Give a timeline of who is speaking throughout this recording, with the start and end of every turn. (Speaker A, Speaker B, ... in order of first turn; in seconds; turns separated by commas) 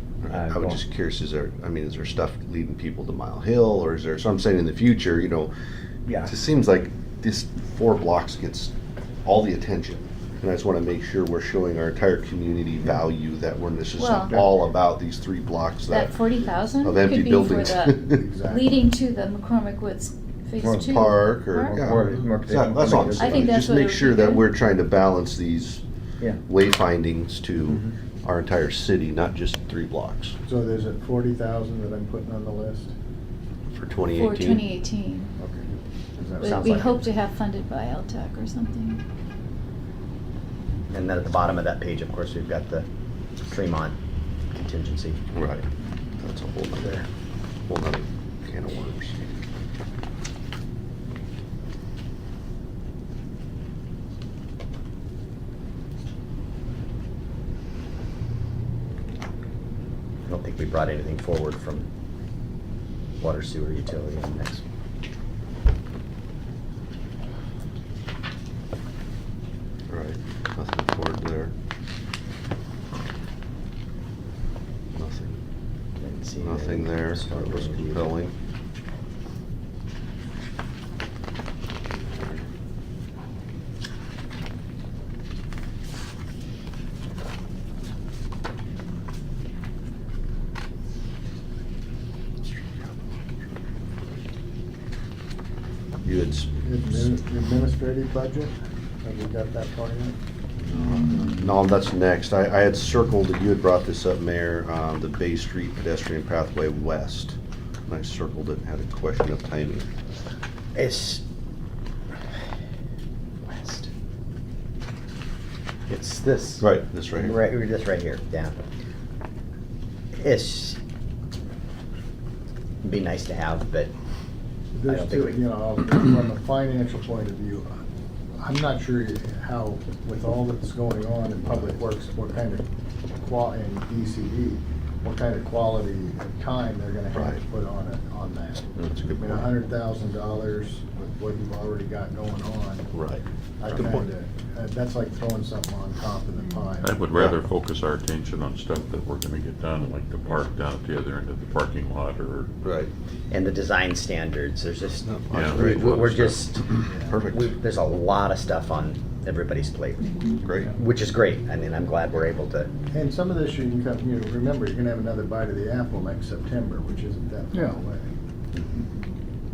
Speaker A: 0.2-5.5, Speaker B: 0.3-0.8, Speaker B: 6.1-6.3, Speaker A: 6.2-8.7, Speaker A: 9.2-16.2, Speaker C: 14.0-14.4, Speaker C: 15.9-21.6, Speaker A: 16.8-18.2, Speaker D: 18.1-18.8, Speaker B: 20.6-20.9, Speaker A: 20.7-25.8, Speaker B: 21.6-23.6, Speaker C: 23.2-24.4, Speaker A: 26.4-30.4, Speaker D: 30.5-32.9, Speaker A: 33.7-34.6, Speaker C: 34.1-35.3, Speaker D: 35.4-36.8, Speaker B: 36.4-37.0, Speaker C: 36.4-39.0, Speaker B: 40.9-42.9, Speaker B: 43.5-44.0, Speaker B: 44.5-45.2, Speaker A: 45.3-45.6, Speaker A: 46.2-47.0, Speaker B: 46.8-47.0, Speaker A: 47.7-49.2, Speaker B: 60.3-61.9, Speaker B: 63.2-64.6, Speaker A: 69.9-71.5, Speaker A: 75.0-75.4, Speaker B: 76.0-78.2, Speaker A: 76.4-78.3, Speaker A: 81.9-82.4, Speaker A: 96.0-97.0, Speaker D: 96.6-100.2, Speaker A: 100.7-109.9, Speaker B: 110.8-111.2, Speaker B: 113.5-113.9, Speaker B: 115.9-116.7, Speaker A: 116.6-117.4, Speaker B: 117.2-118.6, Speaker B: 120.2-120.8, Speaker B: 122.8-123.9, Speaker D: 124.7-127.7, Speaker B: 124.9-125.4, Speaker D: 128.4-132.7, Speaker D: 133.2-142.9, Speaker A: 137.1-137.4, Speaker A: 138.8-139.5, Speaker A: 142.9-144.1, Speaker D: 143.6-147.0, Speaker E: 146.8-152.5, Speaker A: 147.1-147.4, Speaker A: 152.6-152.9, Speaker B: 153.3-156.6, Speaker A: 155.0-157.5, Speaker E: 155.3-156.4, Speaker D: 156.9-157.2, Speaker B: 157.2-162.7, Speaker A: 160.4-160.7, Speaker D: 162.9-168.1, Speaker C: 167.5-167.8